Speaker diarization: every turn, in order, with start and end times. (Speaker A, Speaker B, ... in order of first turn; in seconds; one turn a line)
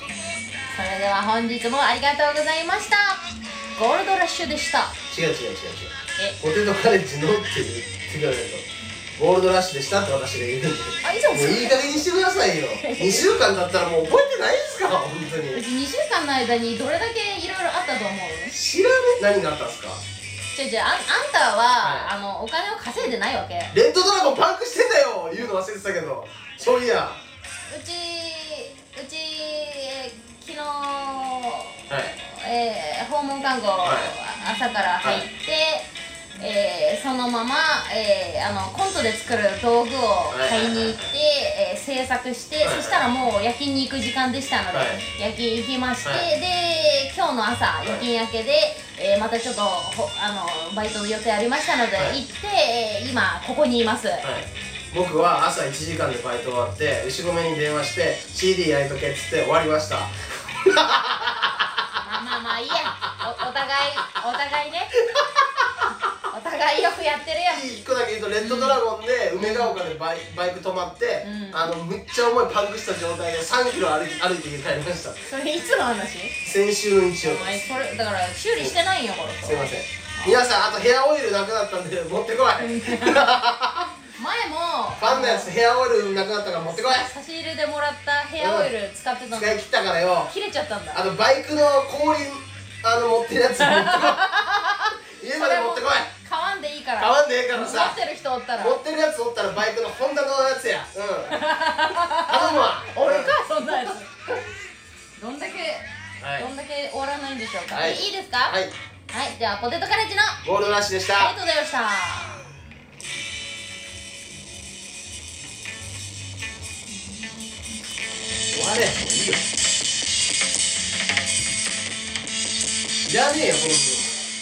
Speaker A: 0.7-5.0
Speaker B: 5.1-8.7
Speaker B: 9.2-15.6
Speaker A: 11.0-11.9
Speaker A: 12.8-13.3
Speaker A: 15.5-18.5
Speaker B: 18.5-20.0
Speaker A: 20.5-23.7
Speaker B: 21.8-22.1
Speaker B: 23.7-27.2
Speaker A: 27.7-54.3
Speaker B: 31.9-32.1
Speaker B: 33.8-34.1
Speaker B: 40.3-41.1
Speaker B: 42.6-43.0
Speaker B: 44.7-45.0
Speaker B: 46.0-46.3
Speaker B: 54.2-61.9
Speaker A: 62.0-65.0
Speaker B: 65.0-65.7
Speaker A: 66.3-67.8
Speaker B: 67.5-75.2
Speaker A: 68.4-68.8
Speaker A: 69.4-69.8
Speaker A: 71.2-71.7
Speaker A: 75.3-76.4
Speaker B: 76.4-77.7
Speaker A: 77.2-80.4
Speaker B: 79.4-83.9
Speaker A: 82.6-83.3
Speaker A: 84.1-85.5
Speaker B: 85.0-87.1
Speaker A: 86.7-89.6
Speaker B: 88.4-88.7
Speaker B: 89.3-90.3
Speaker A: 90.3-91.0
Speaker B: 90.9-94.2
Speaker A: 93.6-98.8
Speaker B: 95.1-96.1
Speaker B: 97.0-98.0
Speaker B: 98.6-101.5
Speaker A: 101.3-104.1
Speaker B: 102.1-104.4
Speaker A: 105.2-108.6
Speaker B: 106.2-106.5
Speaker B: 107.7-108.7
Speaker A: 109.1-110.5
Speaker B: 110.4-111.3
Speaker A: 111.2-112.5
Speaker B: 118.5-119.5
Speaker B: 123.0-124.2